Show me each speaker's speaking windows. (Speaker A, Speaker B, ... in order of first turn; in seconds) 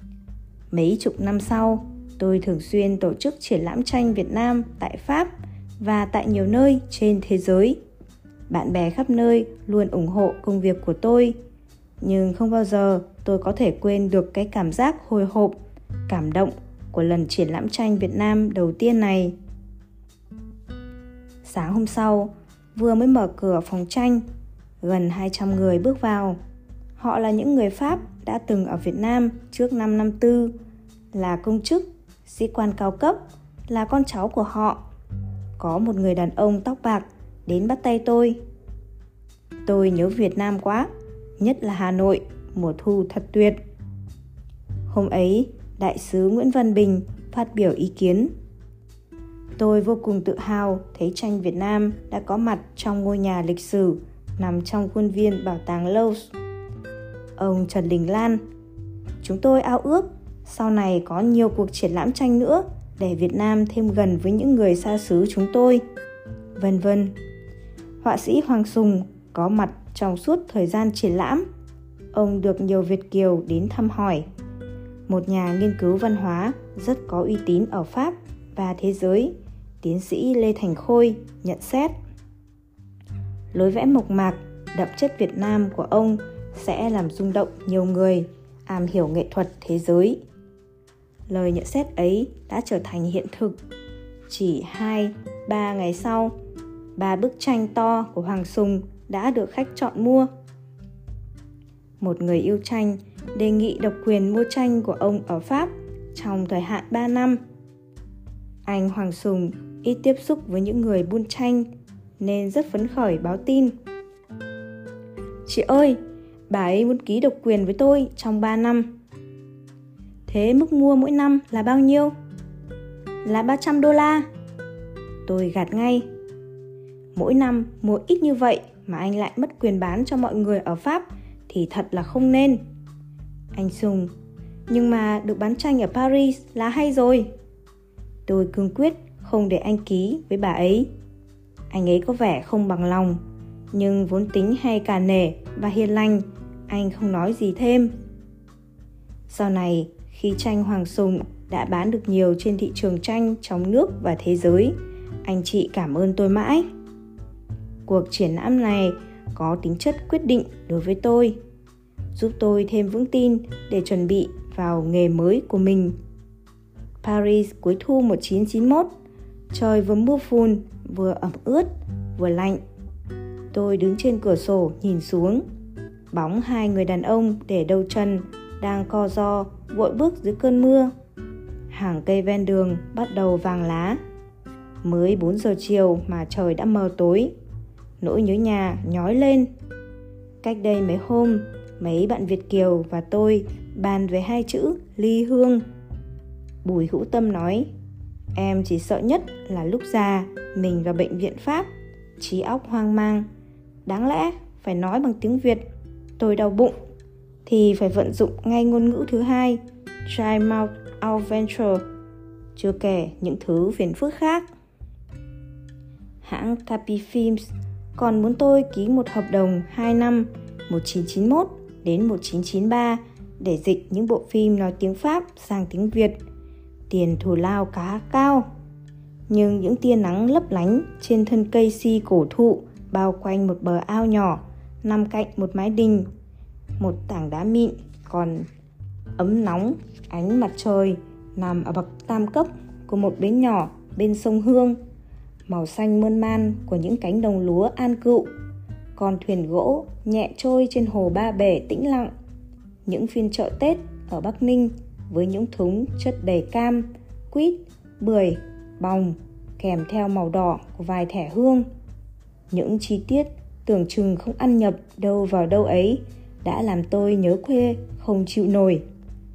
Speaker A: 0.7-7.8, 8.5-11.3, 12.0-15.6, 16.1-19.3, 21.4-24.2, 24.8-26.4, 27.0-30.5, 31.1-34.8, 35.6-38.4, 39.6-43.6, 44.9-48.3, 49.6-56.3, 57.4-58.4, 59.2-65.8, 66.5-67.1, 68.0-71.4, 72.1-74.2, 75.1-81.9, 83.5-90.2, 91.3-93.6, 94.3-96.3, 97.0-100.3, 102.0-107.4, 108.7-111.7, 112.2-113.7, 115.5-116.0, 116.5-118.9, 120.3-122.1, 123.2-124.2, 125.2-126.0, 127.1-132.6, 133.5-134.1, 134.7-137.3, 138.3-140.9, 141.7-143.2, 143.7-147.9, 149.3-156.6, 157.8-161.4, 162.1-165.9, 167.0-168.9, 169.5-172.6, 173.5-175.4, 176.1-180.9, 181.7-184.0, 184.8-187.3, 188.0-189.5, 190.4-195.6, 196.6-197.7, 198.3-203.3, 203.8-205.6, 206.2-206.8, 207.4-211.8, 212.6-214.5, 216.2-226.2, 226.9-228.4, 229.3-236.1, 236.8-238.5, 239.2-244.8, 245.5-248.3, 248.9-252.1, 252.8-261.6, 262.5-268.8